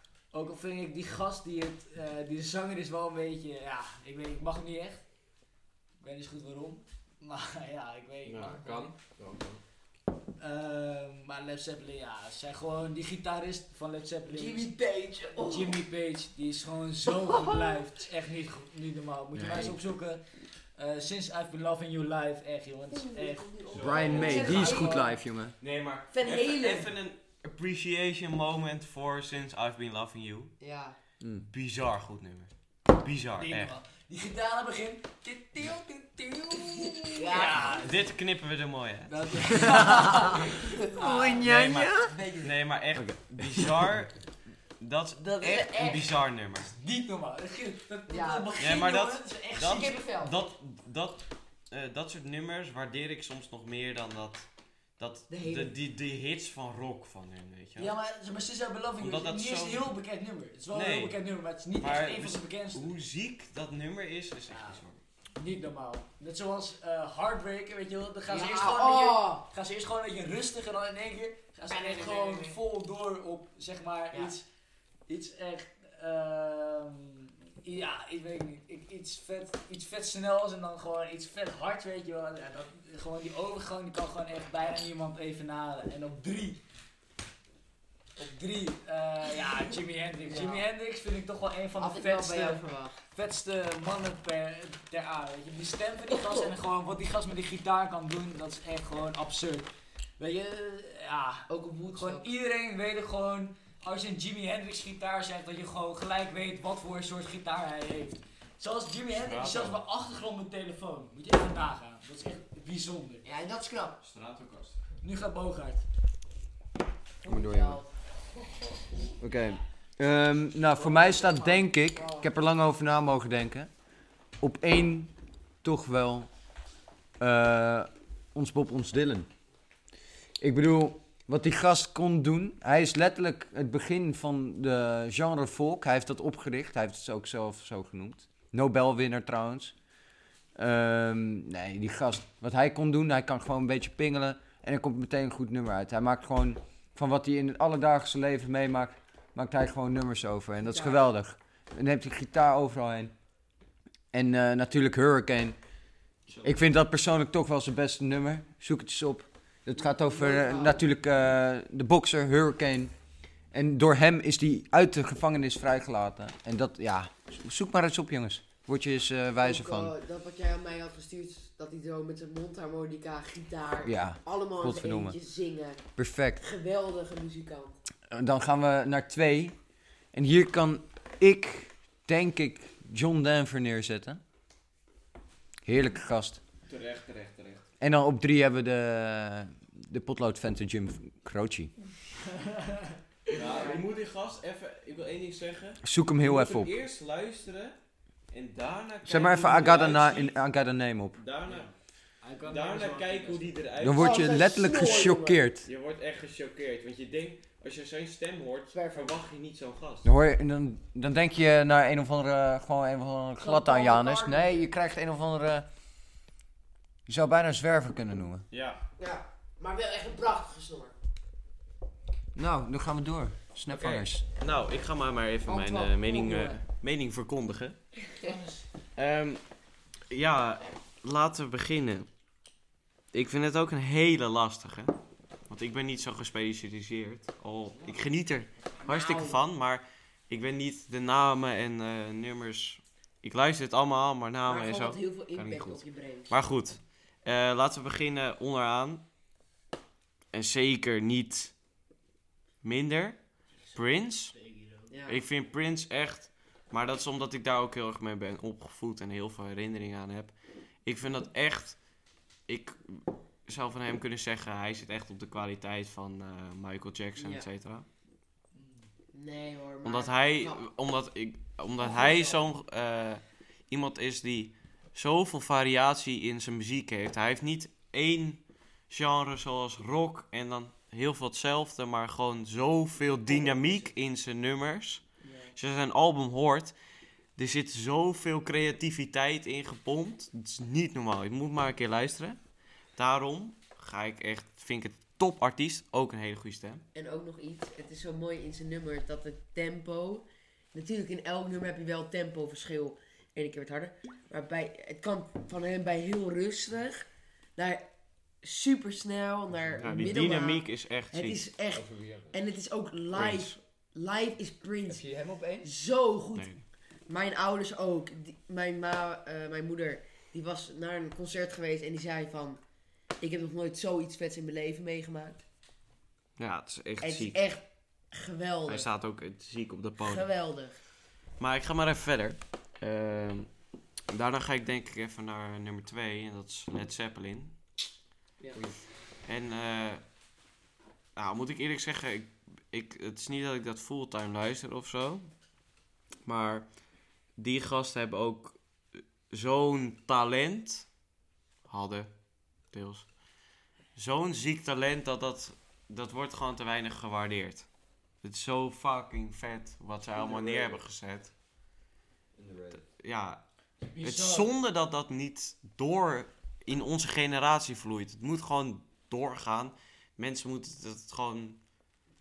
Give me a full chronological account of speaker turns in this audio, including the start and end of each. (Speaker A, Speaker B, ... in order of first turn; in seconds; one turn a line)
Speaker A: 0.3-5.0
Speaker A: 6.0-8.9
Speaker B: 8.2-9.6
Speaker A: 10.4-14.7
Speaker C: 14.3-15.8
Speaker A: 15.4-23.6
Speaker C: 17.2-17.9
Speaker D: 19.4-19.8
Speaker C: 22.9-25.1
Speaker B: 23.7-25.0
Speaker D: 23.7-25.6
Speaker A: 24.2-25.0
Speaker B: 25.6-30.6
Speaker C: 26.1-26.9
Speaker C: 30.6-31.0
Speaker D: 31.2-31.5
Speaker B: 31.5-33.7
Speaker A: 33.4-38.1
Speaker C: 37.0-37.9
Speaker B: 37.7-39.3
Speaker A: 39.1-41.4
Speaker D: 39.5-42.1
Speaker C: 40.6-41.4
Speaker B: 41.4-44.1
Speaker A: 42.1-42.5
Speaker D: 43.0-43.9
Speaker B: 44.8-46.7
Speaker C: 45.3-46.1
Speaker A: 46.6-50.2
Speaker C: 48.1-48.6
Speaker B: 48.6-54.5
Speaker C: 49.7-50.3
Speaker B: 55.0-57.9
Speaker C: 55.3-55.7
Speaker A: 57.8-62.9
Speaker B: 59.0-59.9
Speaker B: 60.7-61.2
Speaker B: 61.8-65.0
Speaker A: 64.5-64.8
Speaker A: 65.4-74.5
Speaker C: 68.3-69.5
Speaker C: 71.7-72.6
Speaker A: 75.1-86.6
Speaker A: 88.2-113.2
Speaker C: 90.3-90.6
Speaker C: 91.8-93.0
Speaker C: 101.5-102.3
Speaker B: 109.1-109.8
Speaker C: 113.2-114.0
Speaker B: 114.0-114.8
Speaker A: 115.0-115.8
Speaker C: 117.2-118.8
Speaker D: 117.2-117.8
Speaker D: 119.2-123.7
Speaker C: 120.7-122.3
Speaker D: 124.4-126.3
Speaker D: 127.2-129.3
Speaker D: 130.4-139.8
Speaker D: 140.6-153.2
Speaker C: 150.6-151.1
Speaker D: 154.1-155.6
Speaker B: 156.3-156.6
Speaker D: 156.4-162.9
Speaker C: 159.8-160.8
Speaker D: 163.5-169.9
Speaker C: 169.4-175.8
Speaker D: 173.8-175.2
Speaker D: 176.0-176.4
Speaker C: 176.4-177.8
Speaker D: 178.1-179.6
Speaker D: 180.1-184.2
Speaker D: 185.6-186.4
Speaker B: 186.7-187.7
Speaker D: 187.8-191.7
Speaker A: 192.4-192.8
Speaker B: 193.3-197.8
Speaker C: 193.3-193.8
Speaker D: 195.8-196.8
Speaker B: 198.3-200.4
Speaker D: 199.0-201.2
Speaker B: 201.2-201.7
Speaker A: 201.5-203.6
Speaker B: 202.4-204.4
Speaker D: 203.8-205.7
Speaker C: 203.9-205.4
Speaker B: 205.6-210.1
Speaker C: 208.7-209.2
Speaker D: 210.0-215.7
Speaker C: 213.4-214.7
Speaker D: 217.1-218.5
Speaker B: 218.5-218.8
Speaker C: 219.0-220.9
Speaker D: 222.3-224.2
Speaker B: 223.7-227.8
Speaker C: 225.5-226.6
Speaker A: 228.3-228.6
Speaker B: 228.9-229.4
Speaker B: 230.1-232.1
Speaker B: 233.1-235.0
Speaker B: 235.5-249.0
Speaker C: 238.8-239.4
Speaker C: 244.5-246.3
Speaker B: 250.3-251.5
Speaker B: 252.6-254.3
Speaker A: 254.3-254.9
Speaker C: 254.9-255.2
Speaker B: 255.1-261.8
Speaker B: 262.5-267.9
Speaker C: 267.2-267.5
Speaker A: 268.6-268.9
Speaker C: 269.1-270.6
Speaker B: 269.8-286.8
Speaker C: 271.8-272.4
Speaker B: 287.4-292.4
Speaker B: 293.0-296.8
Speaker C: 296.9-307.1
Speaker C: 307.6-307.9
Speaker C: 308.4-315.0
Speaker D: 309.5-310.2
Speaker B: 309.8-311.4
Speaker D: 311.7-312.4
Speaker B: 313.1-313.6
Speaker D: 314.9-315.7
Speaker C: 315.6-316.5
Speaker B: 316.4-316.6
Speaker C: 317.1-322.6
Speaker C: 323.2-325.4
Speaker B: 326.4-327.4
Speaker C: 327.0-328.9
Speaker B: 328.7-330.3
Speaker C: 330.0-330.8
Speaker B: 331.4-333.5
Speaker B: 334.1-337.6
Speaker B: 339.2-340.0
Speaker B: 341.2-345.3
Speaker B: 346.2-346.7
Speaker B: 347.4-350.9
Speaker B: 351.7-352.1
Speaker B: 352.7-353.1
Speaker B: 353.9-357.7
Speaker B: 358.2-361.3
Speaker D: 360.1-360.8
Speaker D: 362.4-362.8
Speaker B: 362.8-363.4
Speaker A: 363.9-364.5
Speaker B: 364.0-371.6